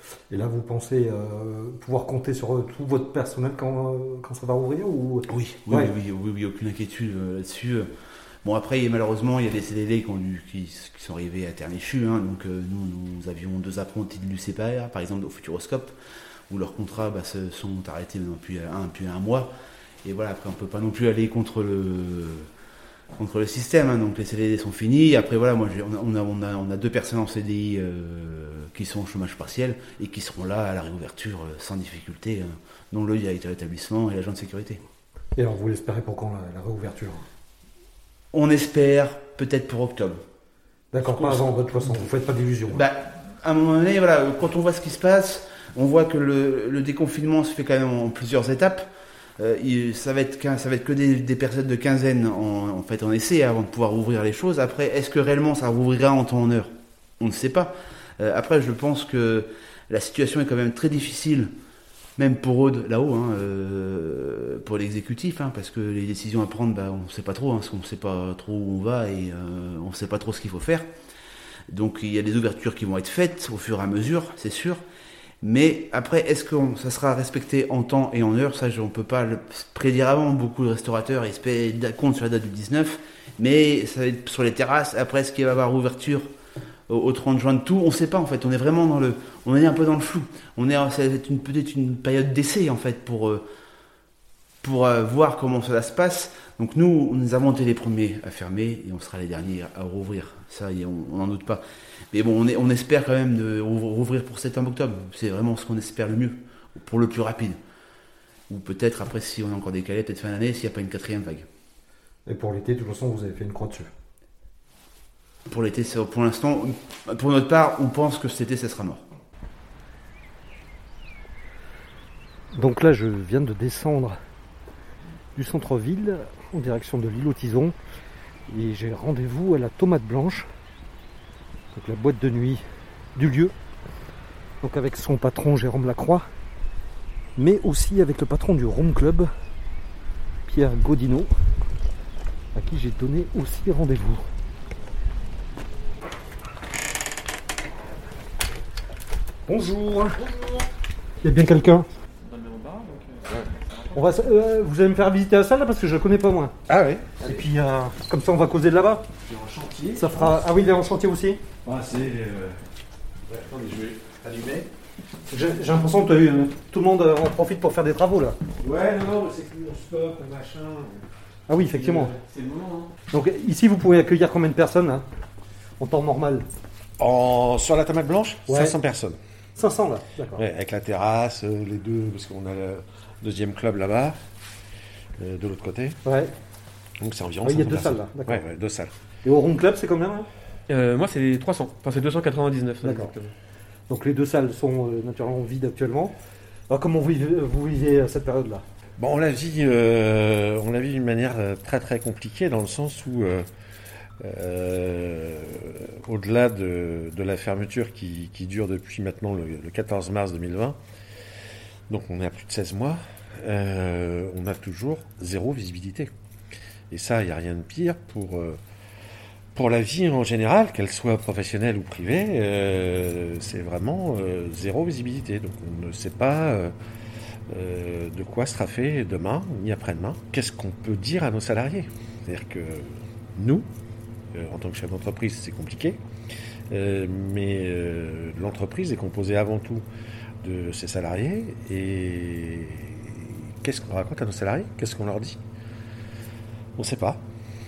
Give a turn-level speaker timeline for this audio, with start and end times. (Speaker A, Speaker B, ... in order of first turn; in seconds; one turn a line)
Speaker A: 0.3-5.9
Speaker B: 5.3-7.9
Speaker B: 8.4-15.9
Speaker B: 16.5-22.5
Speaker B: 23.2-34.8
Speaker A: 35.4-37.3
Speaker B: 38.3-40.2
Speaker A: 40.9-42.9
Speaker B: 41.0-42.0
Speaker B: 42.7-48.9
Speaker B: 49.4-61.5
Speaker B: 62.2-70.9
Speaker B: 71.7-74.8
Speaker B: 75.4-86.3
Speaker B: 86.9-93.5
Speaker B: 94.6-107.6
Speaker B: 108.5-111.5
Speaker A: 112.3-113.9
Speaker B: 115.5-119.0
Speaker A: 122.5-124.2
Speaker A: 125.3-127.8
Speaker A: 128.5-130.5
Speaker A: 131.7-132.6
Speaker A: 133.2-133.5
Speaker A: 134.6-136.3
Speaker A: 137.4-139.3
Speaker A: 140.5-141.3
Speaker A: 142.6-144.2
Speaker A: 149.5-150.3
Speaker A: 151.2-151.9
Speaker C: 152.2-153.9
Speaker A: 153.9-156.6
Speaker C: 156.7-157.4
Speaker A: 157.2-159.1
Speaker C: 159.2-160.4
Speaker A: 160.0-161.4
Speaker C: 161.7-162.6
Speaker C: 163.3-164.7
Speaker A: 165.3-168.4
Speaker C: 168.6-171.1
Speaker A: 171.5-172.1
Speaker C: 171.6-172.9
Speaker A: 173.1-175.1
Speaker A: 175.8-176.5
Speaker C: 177.0-179.2
Speaker A: 178.5-178.8
Speaker A: 179.6-180.4
Speaker C: 180.4-184.2
Speaker C: 185.2-186.0
Speaker A: 186.1-186.3
Speaker C: 187.0-188.9
Speaker A: 187.4-188.4
Speaker A: 189.2-190.3
Speaker D: 190.7-193.3
Speaker A: 192.8-193.1
Speaker A: 193.9-196.2
Speaker A: 196.7-198.7
Speaker C: 199.0-203.5
Speaker C: 204.2-210.8
Speaker C: 211.9-216.1
Speaker C: 216.9-218.6
Speaker C: 219.5-226.7
Speaker C: 227.5-233.7
Speaker C: 234.3-236.0
Speaker C: 236.7-239.8
Speaker C: 240.4-245.4
Speaker C: 246.8-247.2